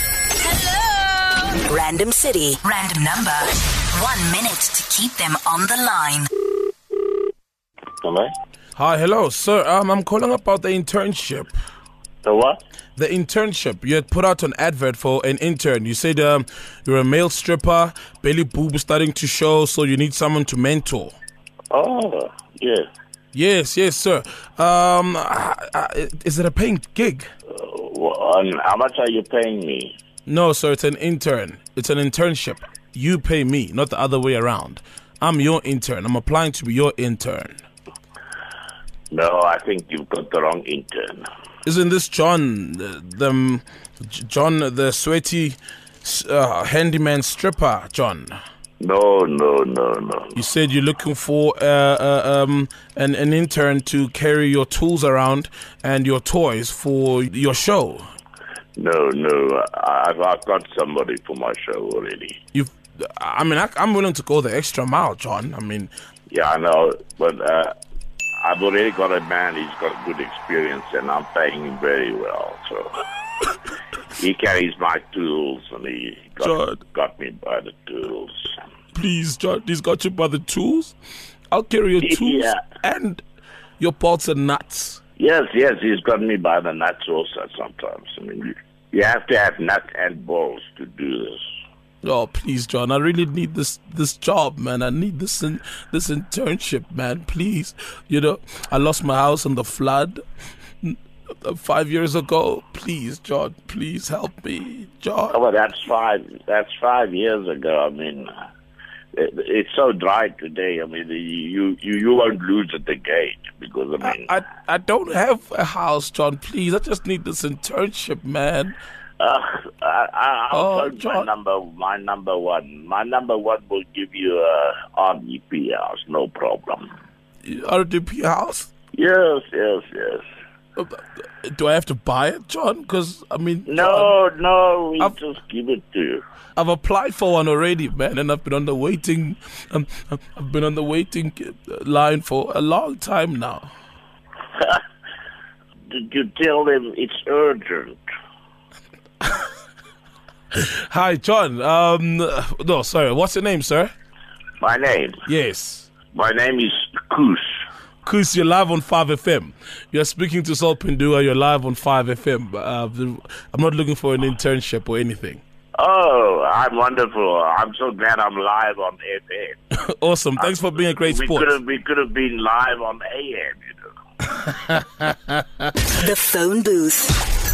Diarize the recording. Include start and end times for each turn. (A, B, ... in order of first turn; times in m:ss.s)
0:00.5-0:06.3 A
0:08.0-0:08.3 B
0:08.8-0:11.5 C
0:12.2-0:12.6 B
0:13.0-0:21.2 C
0:21.7-0:22.9 B
0:23.3-0:27.3 C
0:27.5-0:30.0 B
0:30.3-0:37.6 C
0:39.1-0:41.3 B
0:41.6-0:48.4 C
0:48.8-0:50.4 B
0:50.4-0:58.1 C
0:58.8-1:02.4 B
1:02.5-1:05.9 C
1:06.3-1:07.7 B
1:08.4-1:13.0 B
1:14.2-1:18.6 B
1:16.4-1:16.8 C
1:18.9-1:21.0 C
1:21.5-1:23.2 C
1:22.0-1:22.6 B
1:23.8-1:25.0 C
1:25.2-1:31.4 B
1:32.0-1:40.2 C
1:40.8-1:45.4 C
1:45.3-1:48.3 B
1:49.2-1:54.3 B
1:54.0-1:58.8 C
1:59.2-2:06.9 B
2:00.5-2:01.3 C
2:07.4-2:08.7 C
2:09.0-2:10.2 B
2:10.8-2:14.1 C
2:13.7-2:16.2 B
2:16.6-2:23.7 C
2:25.9-2:28.0 B
2:29.2-2:29.5 C
2:30.5-2:33.9 C
2:34.6-2:35.2 B
2:35.3-2:35.9 C
2:36.1-2:37.5 B
2:38.0-2:45.4 C
2:45.8-2:49.6 B
2:49.8-2:51.6 C
2:50.4-2:53.9 B
2:54.7-2:55.3 C
2:55.9-2:57.1 A